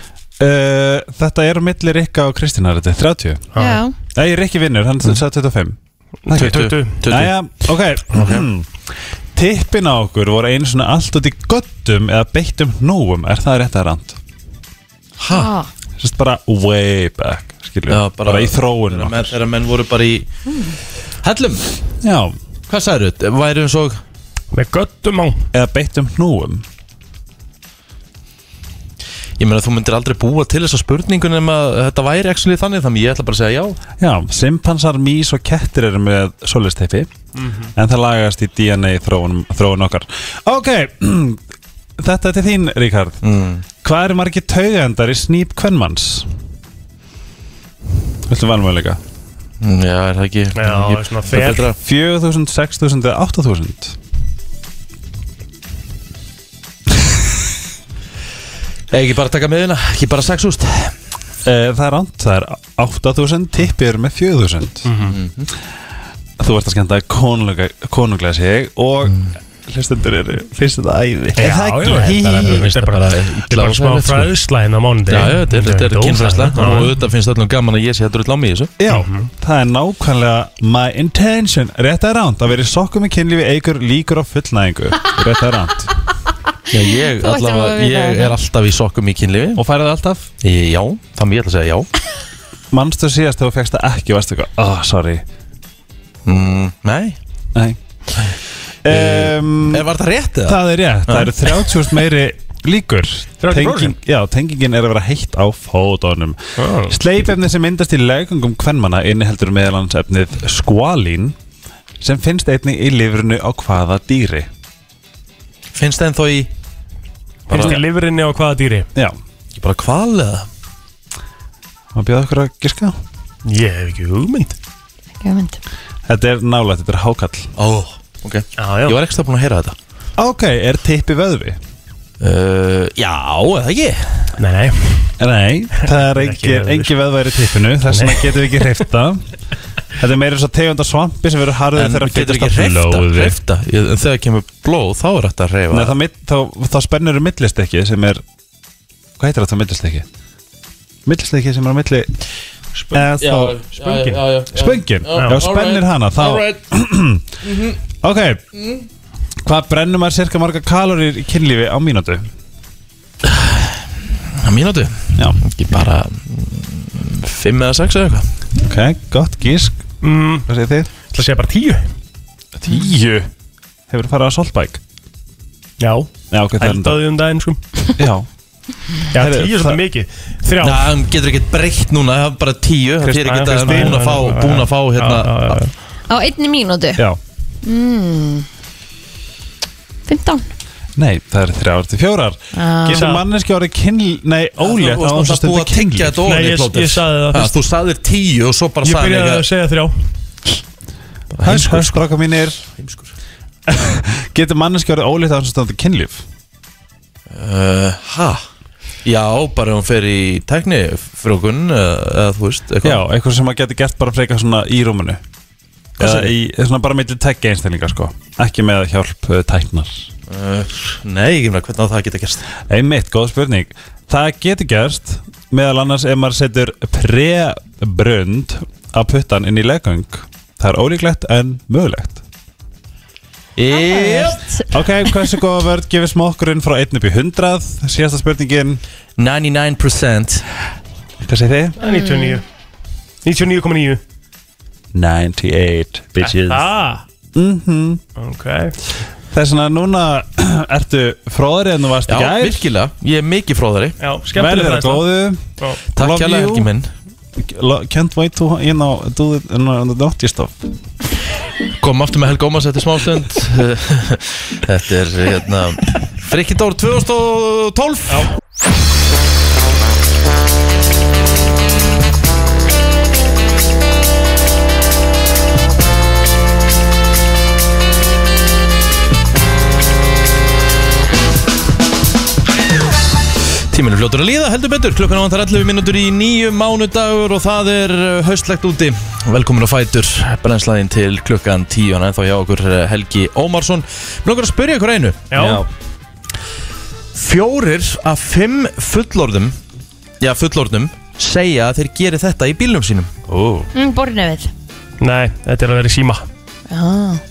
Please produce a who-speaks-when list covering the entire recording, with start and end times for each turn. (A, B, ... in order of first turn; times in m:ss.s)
0:00.4-0:03.4 A
0:03.5-0:03.8 B
0:03.6-0:03.9 C
0:04.1-0:05.8 A
0:06.2-0:07.0 B
0:06.3-0:14.2 A
0:06.3-0:07.3 D
0:08.1-0:08.5 D
0:15.2-0:15.5 D
0:15.3-0:15.7 C
0:16.0-0:19.3 A
0:17.9-0:20.3 D
0:20.5-0:20.8 C
0:21.2-0:21.7 D
0:22.0-0:22.4 A
0:22.7-0:24.0 D
0:24.5-0:25.4 B
0:25.5-0:26.6 A
0:29.4-0:33.8 D
0:34.0-0:37.1 A
0:37.4-0:37.7 B
0:37.7-0:41.4 A
0:42.0-0:43.2 A
0:43.2-0:43.6 D
0:43.8-0:46.3 A
0:48.3-0:49.0 A
0:49.6-0:51.8 D
0:50.5-0:51.7 B
0:51.8-0:54.0 A
0:58.9-1:01.0 D
1:01.4-1:04.9 A
1:04.8-1:05.2 B
1:05.0-1:05.5 D
1:06.4-1:12.7 A
1:09.0-1:09.3 D
1:11.4-1:17.0 B
1:11.8-1:14.3 D
1:15.1-1:18.7 D
1:18.8-1:25.9 A
1:18.9-1:19.3 B
1:26.7-1:29.6 D
1:26.7-1:28.4 C
1:29.6-1:30.3 A
1:30.4-1:31.9 D
1:32.7-1:35.2 A
1:36.2-1:37.2 D
1:37.5-1:38.3 A
1:38.8-1:39.9 A
1:38.8-1:41.5 D
1:40.4-1:51.3 A
1:43.4-1:44.0 B
1:46.6-1:47.0 B
1:52.0-1:54.5 A
1:55.7-1:56.5 D
1:57.5-1:58.9 B
1:57.5-1:57.8 D
1:57.5-1:57.8 A
1:59.5-2:00.5 D
2:01.9-2:03.0 A
2:03.4-2:04.6 B
2:05.2-2:05.6 C
2:06.1-2:07.5 A
2:07.6-2:09.8 D
2:08.6-2:09.0 B
2:10.2-2:11.6 A
2:12.2-2:14.4 D
2:14.4-2:15.1 B
2:15.2-2:19.2 A
2:15.8-2:16.9 B
2:17.8-2:18.7 B
2:19.9-2:23.4 A
2:21.7-2:26.0 D
2:25.7-2:28.2 A
2:29.2-2:30.0 A
2:31.0-2:32.2 A
2:32.8-2:33.1 B
2:32.9-2:33.6 A
2:33.2-2:36.6 D
2:33.8-2:34.2 B
2:34.5-2:37.3 A
2:35.1-2:35.4 B
2:37.4-2:37.8 D
2:38.0-2:38.4 A
2:38.5-2:38.8 D
2:39.4-2:42.3 A
2:43.2-2:48.3 D
2:48.6-2:49.8 A
2:50.0-2:50.5 B
2:50.5-2:50.9 A
2:51.1-2:51.9 B
2:52.6-2:53.3 A
2:53.9-2:54.8 A
2:55.8-2:57.6 B
2:56.3-2:57.0 A
2:58.0-2:58.3 A
2:59.1-3:00.9 B
2:59.1-2:59.8 A
3:00.6-3:05.6 D
3:03.0-3:04.0 A
3:03.3-3:05.7 B
3:06.1-3:07.0 C
3:07.6-3:08.4 C
3:10.1-3:10.5 C
3:11.0-3:16.2 A
3:12.5-3:13.1 C
3:12.9-3:13.2 B
3:14.6-3:19.4 D
3:16.2-3:17.6 B
3:18.8-3:20.0 B
3:21.3-3:22.1 D
3:21.4-3:22.6 A
3:22.6-3:23.1 D
3:23.7-3:26.2 A
3:27.3-3:28.4 D
3:29.0-3:33.0 D
3:32.8-3:35.2 A
3:36.0-3:40.1 A
3:36.0-3:36.3 D
3:40.3-3:42.5 D
3:42.7-3:52.2 A
3:53.6-3:54.5 D
3:53.7-3:54.7 C
3:54.7-3:58.8 A
3:59.2-4:00.4 D
4:01.2-4:01.8 A
4:01.8-4:02.4 B
4:01.8-4:02.4 C
4:03.2-4:04.0 B
4:04.9-4:06.7 A
4:06.2-4:07.0 B
4:07.3-4:08.0 A
4:08.2-4:08.8 B
4:09.3-4:12.6 A
4:12.1-4:14.0 D
4:14.0-4:15.1 B
4:14.3-4:15.4 A
4:15.9-4:16.9 D
4:16.0-4:16.7 A
4:17.4-4:20.6 A
4:21.8-4:28.3 D
4:43.7-4:55.3 D
4:55.3-4:55.6 B
4:55.3-4:55.7 A
4:57.1-4:59.6 D
5:00.2-5:03.1 D
5:03.3-5:03.7 A
5:03.7-5:04.5 C
5:05.0-5:06.3 B
5:06.7-5:07.2 C